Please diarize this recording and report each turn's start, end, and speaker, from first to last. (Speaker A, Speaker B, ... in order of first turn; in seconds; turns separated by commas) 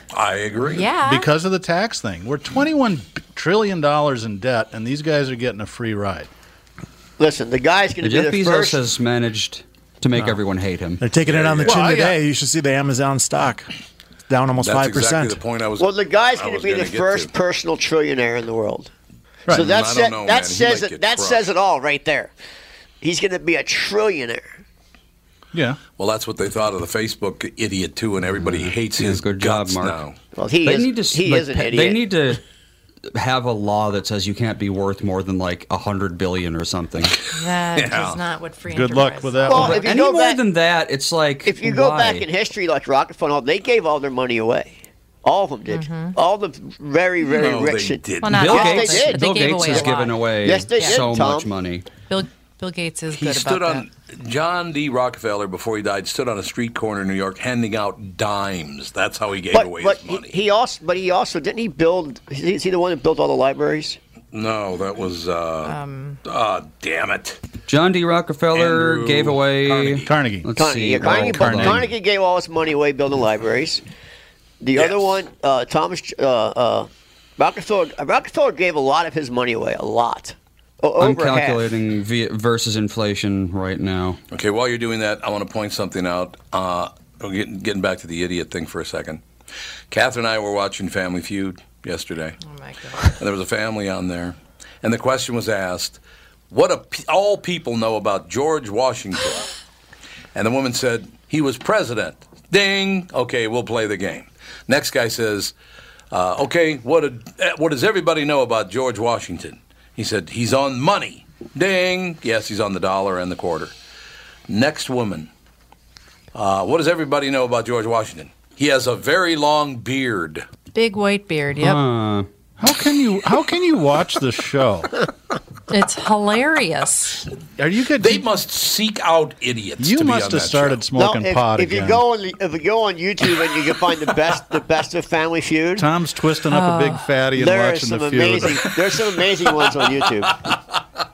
Speaker A: 0.1-0.9, Speaker B: 0.7-1.3, Speaker C: 1.0-6.3, Speaker D: 7.2-8.8, Speaker E: 8.0-11.0, Speaker F: 11.0-13.7, Speaker A: 11.2-12.1, Speaker C: 11.7-12.2, Speaker F: 14.3-15.4, Speaker A: 14.6-17.3, Speaker D: 15.8-18.9, Speaker D: 19.5-22.3, Speaker A: 19.5-21.5, Speaker D: 23.0-24.5, Speaker C: 25.5-25.8, Speaker A: 26.0-30.1, Speaker E: 28.4-30.0, Speaker D: 30.4-32.0, Speaker E: 30.6-32.4, Speaker E: 33.2-37.2, Speaker B: 37.3-39.8, Speaker A: 37.8-38.2, Speaker C: 38.7-39.9, Speaker D: 39.5-40.4, Speaker E: 39.5-42.3, Speaker D: 41.5-51.5, Speaker B: 45.7-46.2, Speaker A: 47.3-48.5, Speaker B: 48.2-50.2, Speaker E: 48.3-51.9, Speaker B: 50.8-51.1, Speaker B: 52.1-53.9, Speaker A: 53.1-60.3, Speaker D: 59.5-64.0, Speaker A: 64.3-67.4, Speaker B: 65.7-66.2, Speaker E: 67.7-71.9, Speaker A: 68.5-70.1, Speaker C: 70.1-70.5, Speaker D: 70.6-73.8, Speaker C: 71.0-71.9, Speaker D: 74.6-81.6, Speaker A: 74.8-75.2, Speaker E: 81.0-84.2, Speaker A: 84.3-89.2, Speaker A: 89.9-92.4, Speaker B: 92.4-93.2, Speaker A: 93.0-96.0, Speaker A: 96.5-99.5, Speaker A: 100.3-105.5, Speaker A: 106.1-113.7, Speaker A: 114.5-115.3, Speaker A: 116.3-120.5, Speaker B: 120.7-121.8, Speaker E: 121.6-122.3, Speaker C: 122.6-125.0, Speaker B: 125.7-127.3, Speaker C: 127.6-128.2, Speaker A: 128.0-130.8, Speaker C: 129.8-132.0, Speaker D: 131.0-135.9, Speaker C: 135.8-138.7, Speaker B: 136.5-137.1, Speaker D: 137.4-140.4